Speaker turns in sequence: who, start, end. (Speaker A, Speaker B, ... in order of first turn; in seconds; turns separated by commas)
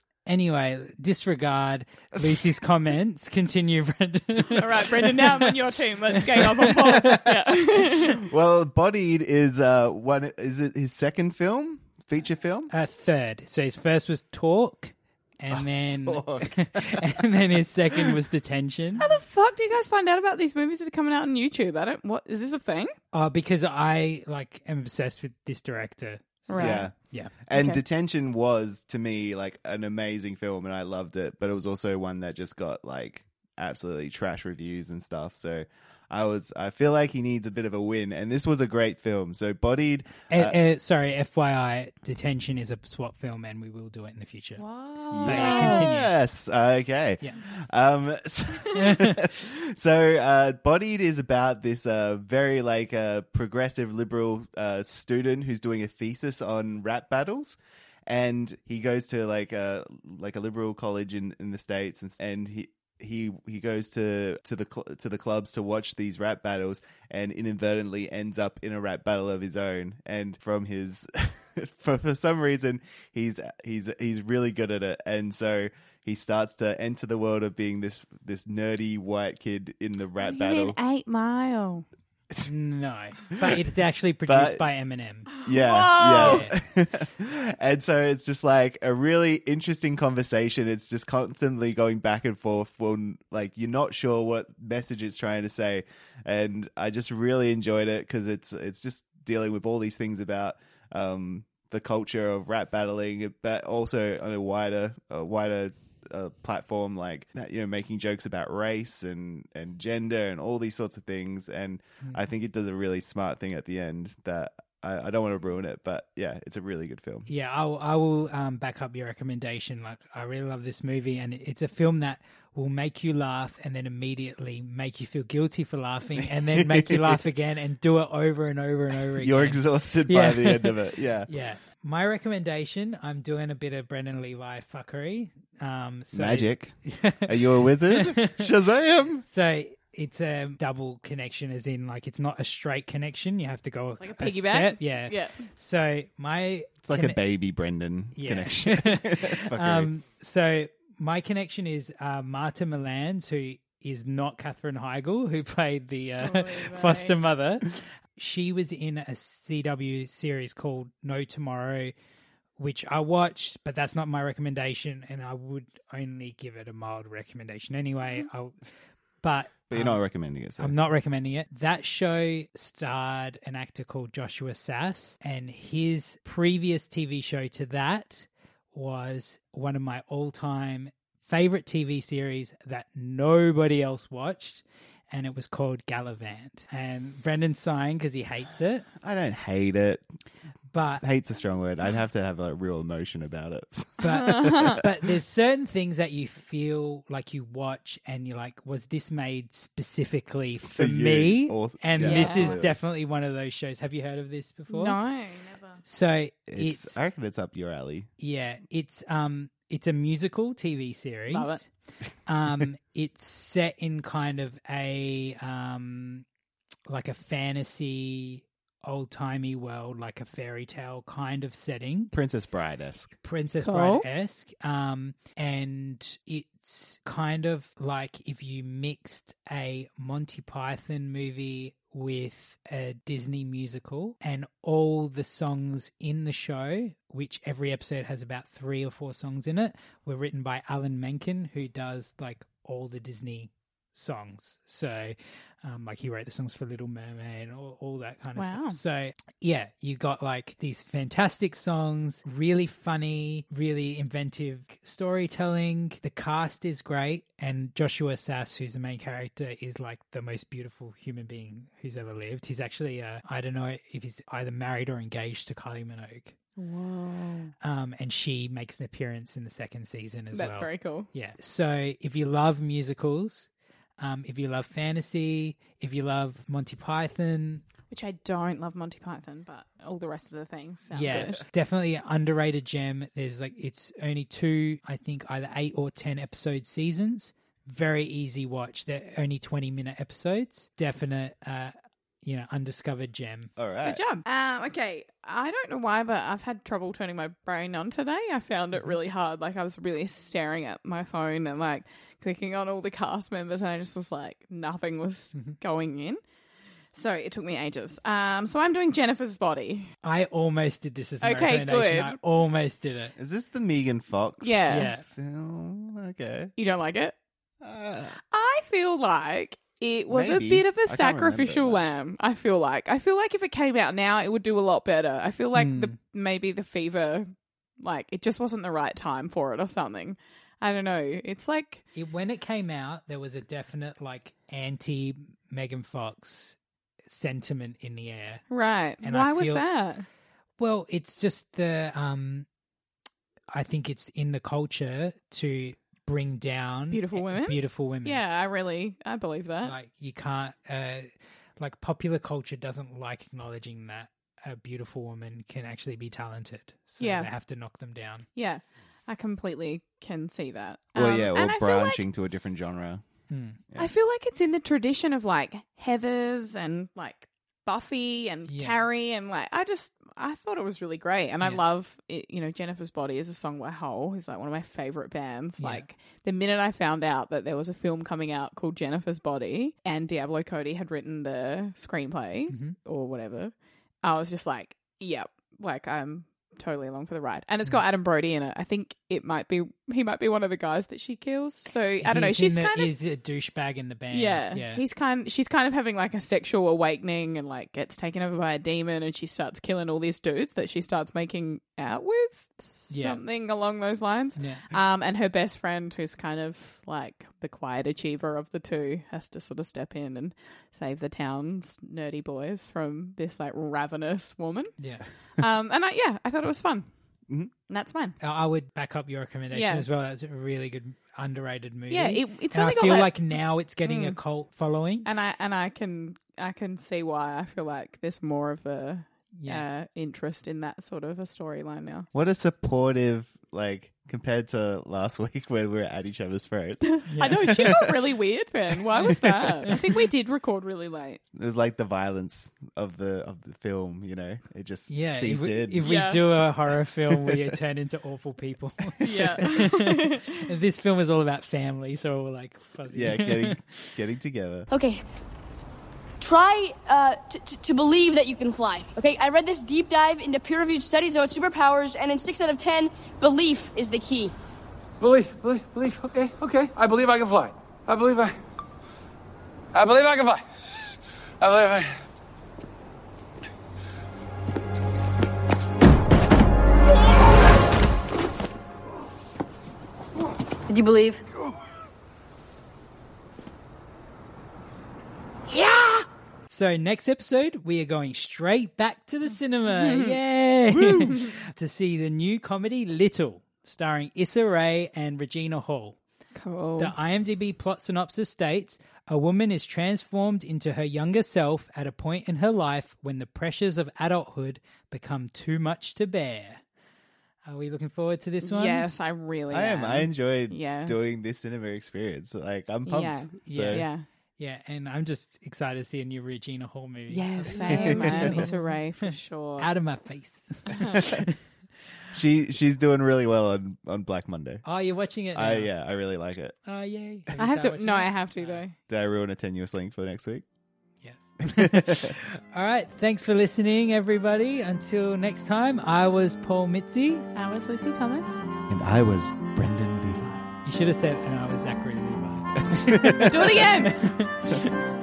Speaker A: 0.3-5.5, Speaker B: 4.6-8.3, Speaker A: 6.4-7.3, Speaker C: 8.0-12.7, Speaker A: 12.7-19.1, Speaker C: 15.5-17.2, Speaker B: 19.0-22.9, Speaker A: 23.1-27.3, Speaker B: 26.5-26.9, Speaker C: 26.5-40.6, Speaker B: 27.5-27.8, Speaker A: 40.3-44.6, Speaker B: 44.6-45.9, Speaker C: 45.1-80.8, Speaker A: 45.2-46.1, Speaker A: 48.8-49.2, Speaker B: 80.2-81.8, Speaker A: 82.5-85.3, Speaker C: 84.3-84.6, Speaker B: 85.3-86.5, Speaker C: 85.5-117.3, Speaker A: 86.1-86.5, Speaker A: 117.3-138.5, Speaker C: 126.2-127.2, Speaker C: 129.2-131.3, Speaker C: 136.1-139.2, Speaker A: 139.3-147.2, Speaker B: 144.0-145.4, Speaker C: 146.8-149.9, Speaker A: 148.2-161.9, Speaker B: 156.2-157.2, Speaker A: 162.6-168.6, Speaker A: 169.2-170.0, Speaker C: 169.7-170.8, Speaker A: 170.6-188.9, Speaker C: 189.0-190.1, Speaker A: 190.7-191.0, Speaker C: 191.0-194.8, Speaker A: 194.0-205.0, Speaker B: 194.1-194.8, Speaker C: 200.8-202.8, Speaker B: 202.0-202.6, Speaker B: 204.7-205.8, Speaker A: 205.8-207.0, Speaker C: 206.5-208.1, Speaker A: 208.2-211.7, Speaker B: 211.3-211.6, Speaker A: 212.3-216.2, Speaker A: 216.9-222.2, Speaker C: 222.1-223.1, Speaker A: 223.2-266.3, Speaker B: 223.6-224.1, Speaker B: 248.4-248.8, Speaker B: 266.6-267.5, Speaker A: 267.6-273.5, Speaker B: 270.3-271.1, Speaker A: 274.0-277.6, Speaker B: 277.9-281.4, Speaker A: 280.9-293.5, Speaker C: 293.6-294.0, Speaker B: 293.8-306.2, Speaker B: 306.9-309.9, Speaker A: 310.0-313.1, Speaker B: 311.2-312.2, Speaker C: 313.2-316.5, Speaker B: 314.4-314.9, Speaker A: 314.7-315.0, Speaker B: 316.6-317.1, Speaker C: 317.6-318.2, Speaker B: 318.3-327.3, Speaker C: 320.1-321.9, Speaker A: 325.6-325.9, Speaker B: 327.8-331.8, Speaker A: 331.9-336.6, Speaker A: 337.1-338.4, Speaker B: 338.5-340.1, Speaker A: 339.0-339.6, Speaker A: 340.6-342.5, Speaker A: 343.5-348.2, Speaker B: 346.9-349.8, Speaker A: 349.6-351.1, Speaker A: 351.6-358.3, Speaker B: 357.0-357.3, Speaker B: 358.4-362.0, Speaker C: 360.9-363.0, Speaker A: 363.3-363.6, Speaker B: 363.8-392.9, Speaker A: 368.5-368.8, Speaker A: 375.6-375.9, Speaker A: 382.5-382.8, Speaker A: 392.0-394.8, Speaker B: 394.1-414.8, Speaker A: 402.9-403.2, Speaker A: 404.4-404.8, Speaker B: 415.4-416.9, Speaker B: 417.7-418.2, Speaker A: 418.2-425.1, Speaker B: 419.5-419.9, Speaker B: 421.9-423.3, Speaker B: 423.8-424.2, Speaker B: 425.1-432.1, Speaker A: 429.4-429.7, Speaker C: 432.1-437.9, Speaker B: 436.9-441.2, Speaker A: 437.1-437.7, Speaker C: 439.1-439.4, Speaker C: 441.3-445.9, Speaker A: 444.9-453.9, Speaker B: 445.8-446.3, Speaker C: 447.1-447.6, Speaker B: 449.0-450.5, Speaker C: 452.9-454.7, Speaker D: 454.7-455.0, Speaker D: 456.2-464.3, Speaker E: 465.0-468.3, Speaker E: 469.8-470.4, Speaker E: 471.4-471.8, Speaker D: 480.7-481.2, Speaker D: 485.5-486.0, Speaker A: 486.5-496.0, Speaker B: 489.7-490.2, Speaker B: 496.4-496.9, Speaker A: 496.8-506.6, Speaker A: 507.5-508.9, Speaker B: 508.4-511.0, Speaker C: 509.5-513.9, Speaker B: 512.9-514.0, Speaker A: 513.5-519.1, Speaker B: 517.1-519.7, Speaker C: 517.7-518.5, Speaker A: 519.6-521.4, Speaker B: 520.8-521.1, Speaker C: 522.1-524.6, Speaker A: 524.6-525.7, Speaker C: 525.3-526.6, Speaker A: 526.7-528.6, Speaker B: 527.4-528.7, Speaker C: 528.9-530.5, Speaker A: 531.0-537.3, Speaker C: 531.4-532.1, Speaker B: 537.4-538.4, Speaker C: 538.7-540.5, Speaker A: 540.6-543.3, Speaker C: 542.6-543.7, Speaker B: 543.3-544.1, Speaker A: 543.9-544.7